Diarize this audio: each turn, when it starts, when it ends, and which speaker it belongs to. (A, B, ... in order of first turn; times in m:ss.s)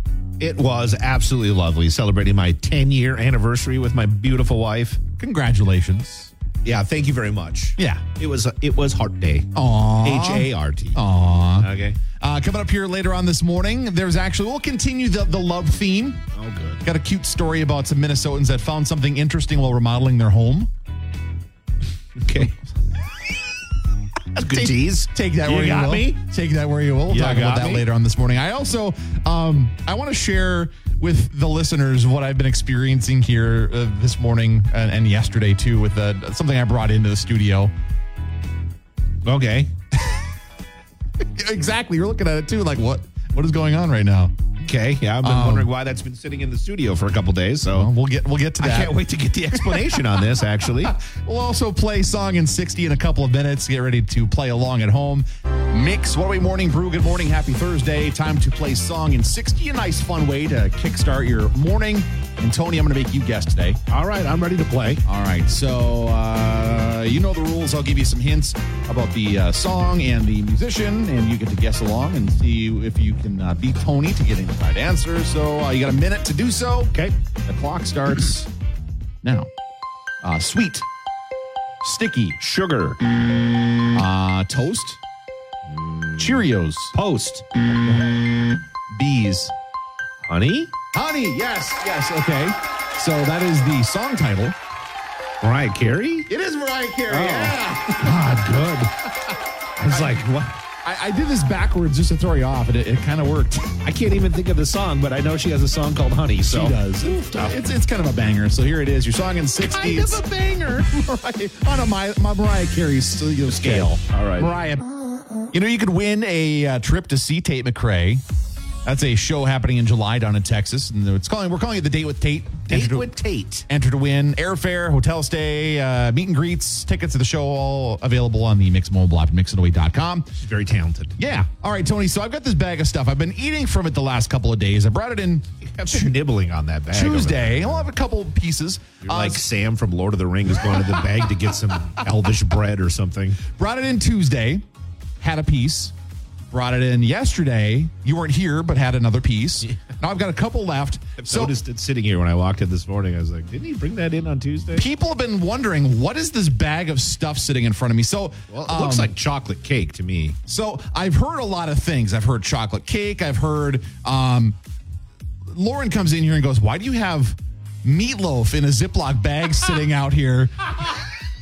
0:00.4-0:05.0 A
0:05.2-0:06.3 B
0:06.6-0:11.0 A
0:07.8-0:08.0 B
0:09.5-0:16.2 B
0:11.6-0:12.0 A
0:16.3-0:16.8 A
0:16.8-0:20.7 B
0:22.2-0:22.5 A
0:24.3-0:26.2 A
0:24.4-0:37.7 B
0:27.1-0:27.9 A
0:39.2-0:39.7 A
0:41.3-0:44.4 B
0:44.6-0:47.9 A
0:45.2-0:45.7 B
0:47.7-0:49.0 B
0:48.6-0:51.0 A
0:49.5-1:03.8 B
1:03.9-1:05.0 A
1:05.0-1:18.5 B
1:19.2-1:19.5 B
1:20.2-1:20.8 B
1:21.8-1:22.4 B
1:22.4-1:23.0 A
1:23.9-1:25.0 B
1:25.7-1:26.4 A
1:26.2-1:26.9 B
1:26.9-1:27.4 A
1:28.9-1:29.5 B
1:30.2-1:30.7 A
1:30.9-1:34.6 B
1:35.4-1:36.3 A
1:36.3-1:38.2 B
1:37.1-1:38.9 A
1:39.8-1:40.6 A
1:39.9-1:40.2 B
1:40.8-1:43.8 B
1:43.8-1:47.6 A
1:46.4-1:50.2 B
1:49.6-1:50.9 A
1:50.9-1:54.7 B
1:53.5-1:54.8 A
1:55.5-1:58.2 B
1:58.8-2:03.1 B
2:02.7-2:03.7 A
2:03.7-2:10.3 B
2:10.4-2:11.2 A
2:11.2-2:16.1 B
2:15.6-2:17.9 A
2:16.9-2:19.4 B
2:19.0-2:23.4 A
2:23.5-2:24.6 B
2:25.2-2:25.9 B
2:26.5-2:31.6 B
2:31.2-2:34.8 A
2:34.7-2:39.1 B
2:38.5-2:40.4 A
2:40.5-2:44.6 B
2:45.5-2:51.0 B